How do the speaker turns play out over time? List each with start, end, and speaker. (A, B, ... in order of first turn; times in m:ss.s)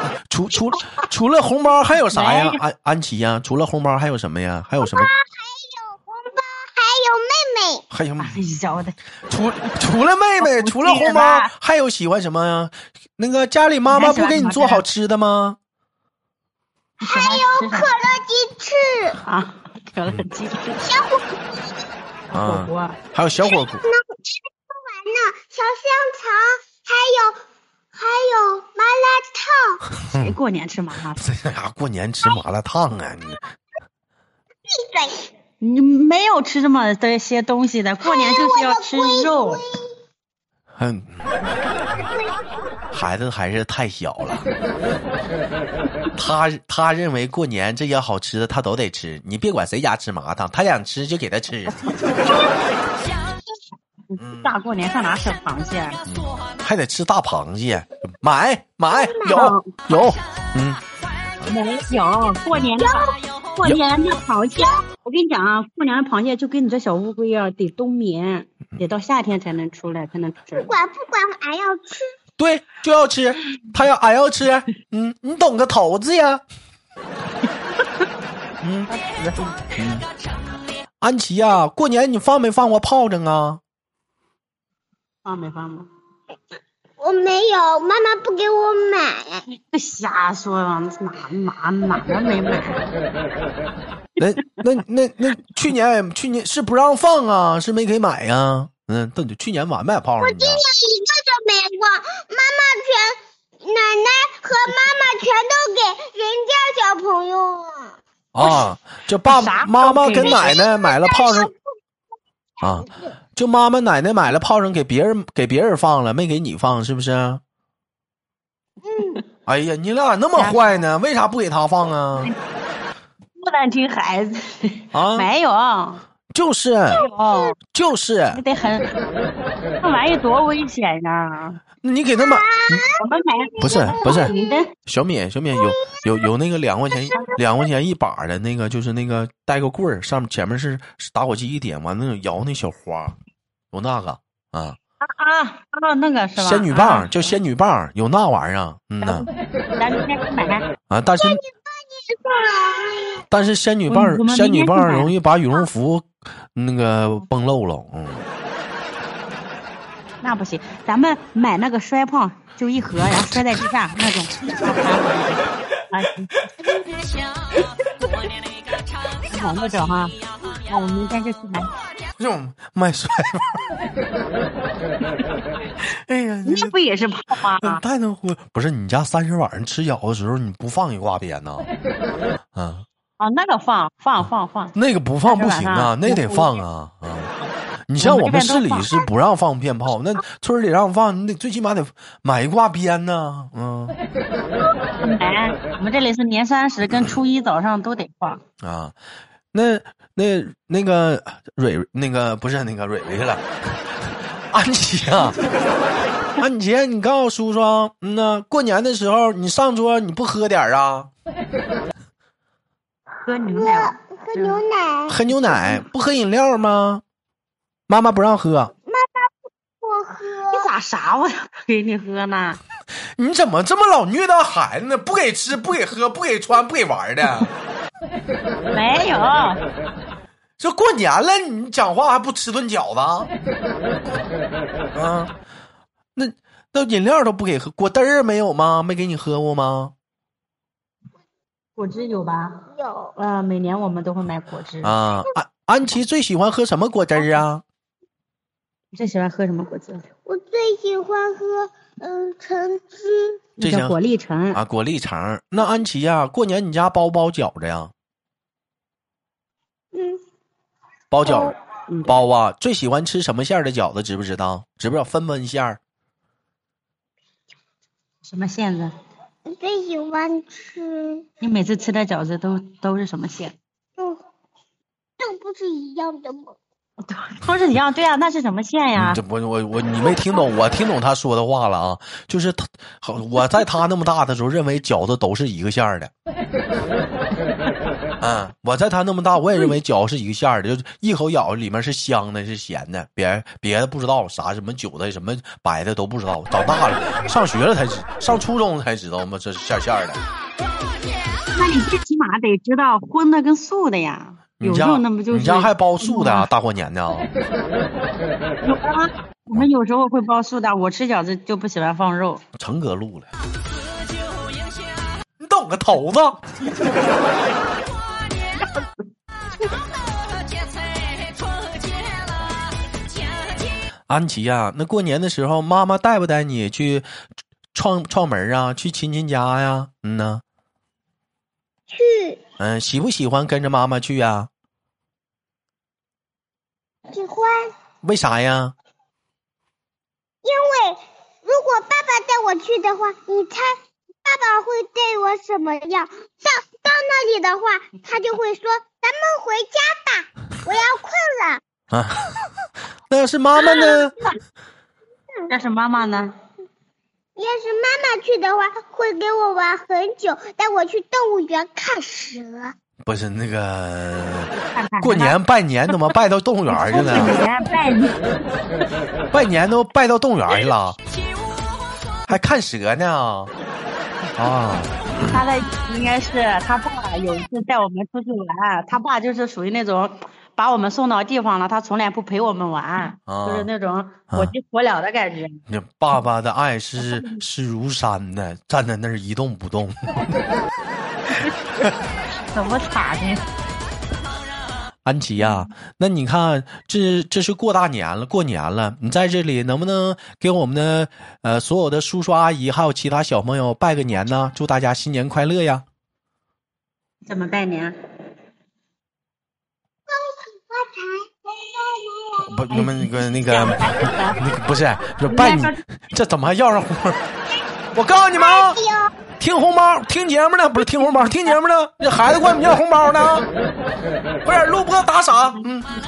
0:00.3-0:05.1 A
0:02.1-0:02.6 B
0:04.8-0:07.8 C
0:07.9-0:08.4 A
0:08.2-0:09.0 B
0:09.3-0:15.6 A
0:10.4-0:11.5 B
0:13.9-0:14.8 B
0:17.0-0:17.9 B
0:17.0-0:19.2 C
0:19.2-0:20.9 B
0:20.8-0:21.4 C
0:22.3-0:23.0 B
0:22.3-0:23.8 A
0:23.5-0:27.4 C
0:28.0-0:29.8 C
0:30.0-0:30.4 A
0:30.1-0:31.2 B
0:31.2-0:33.4 A
0:34.7-0:35.3 C
0:35.6-0:39.6 B
0:38.0-0:39.9 C
0:40.8-0:41.3 A
0:42.9-0:44.5 A
0:46.2-0:51.8 A
0:54.1-0:56.0 B
0:54.2-0:54.5 A
0:56.1-1:00.8 A
0:58.9-0:59.5 C
0:59.3-0:59.8 B
1:01.5-1:10.7 B
1:02.8-1:03.1 C
1:10.6-1:12.2 C
1:12.4-1:16.4 A
1:18.6-1:18.9 A
1:18.9-1:19.6 B
1:19.8-1:20.1 A
1:21.0-1:23.6 A
1:25.2-1:25.9 B
1:27.0-1:29.4 C
1:29.7-1:32.9 B
1:34.2-1:40.6 A
1:40.2-1:48.0 C
1:48.3-1:51.5 A
1:49.2-1:50.5 B
1:50.2-1:51.5 C
1:52.6-1:57.4 A
1:52.6-1:53.1 C
1:58.8-1:59.2 C
1:59.5-2:02.3 A
2:00.4-2:00.8 B
2:03.4-2:06.0 B
2:04.9-2:05.3 A
2:06.3-2:07.0 A
2:07.0-2:07.6 B
2:07.6-2:08.4 A
2:08.3-2:08.9 B
2:09.8-2:11.6 B
2:11.8-2:12.9 A
2:12.2-2:14.6 C
2:13.0-2:14.7 B
2:13.6-2:14.3 A
2:14.9-2:23.2 A
2:15.6-2:16.1 C
2:17.0-2:17.4 C
2:23.7-2:24.8 A
2:25.0-2:27.3 B
2:26.4-2:29.3 A
2:29.0-2:30.7 B
2:30.9-2:31.4 A
2:31.2-2:33.2 C
2:33.3-2:38.3 A
2:33.9-2:35.1 B
2:40.2-2:46.4 B
2:47.6-2:48.1 B
2:49.3-2:51.7 B
2:52.2-2:53.7 A
2:55.8-2:56.8 A
2:56.4-2:57.8 B
2:57.6-3:01.7 A
3:02.5-3:02.9 A
3:03.2-3:06.6 B
3:04.8-3:07.3 A
3:07.9-3:14.0 A
3:08.0-3:09.0 B
3:14.9-3:18.4 B
3:18.6-3:19.0 A
3:19.5-3:25.4 A
3:26.4-3:31.1 A
3:33.2-3:34.6 B
3:33.5-3:35.7 C
3:35.1-3:37.0 A
3:37.9-3:38.7 A
3:38.9-3:40.7 C
3:40.5-3:42.6 B
3:43.2-3:47.5 A
3:48.7-3:49.6 B
3:50.6-3:53.3 A
3:54.9-3:55.3 A
3:56.2-3:59.9 A
4:01.8-4:05.0 B
4:02.7-4:03.2 C
4:04.8-4:07.6 A
4:08.9-4:10.1 B
4:10.3-4:13.5 C
4:13.6-4:14.6 B
4:13.6-4:14.0 A
4:14.5-4:17.9 A
4:19.9-4:20.2 C
4:21.1-4:21.6 A
4:21.3-4:21.5 C
4:21.9-4:22.2 B
4:22.1-4:25.8 A
4:28.2-4:28.9 B
4:29.5-4:31.3 C
4:31.4-4:33.6 B
4:35.2-4:36.6 C
4:37.0-4:39.2 B
4:39.0-4:46.1 A
4:48.2-5:00.2 A
5:01.5-5:06.5 B
5:04.6-5:07.3 A
5:08.6-5:12.4 B
5:12.6-5:13.3 A
5:15.4-5:16.4 A
5:24.1-5:27.1 A
5:27.7-5:30.4 A
5:31.9-5:32.4 C
5:32.6-5:34.5 A
5:37.1-5:37.7 C
5:38.0-5:38.7 A
5:40.4-5:51.6 C
5:51.9-5:52.5 A
5:53.1-5:54.2 A
5:53.8-5:54.1 C
5:55.5-5:56.4 B
5:57.4-6:02.8 C
6:03.0-6:07.4 A
6:04.5-6:05.4 B
6:06.7-6:08.2 B
6:09.3-6:11.0 A
6:12.3-6:13.5 A
6:14.4-6:15.2 A
6:15.2-6:25.6 B
6:23.3-6:23.7 A
6:25.7-6:30.4 A
6:27.0-6:27.4 B
6:32.5-6:33.4 B
6:35.0-6:45.8 A
6:47.3-6:48.0 B
6:50.1-6:52.5 C
6:52.4-6:57.2 A
6:52.7-6:54.4 B
6:55.3-6:55.8 B
6:58.0-6:58.8 A
6:58.3-6:59.1 C
6:59.4-7:03.5 A
7:04.4-7:05.9 A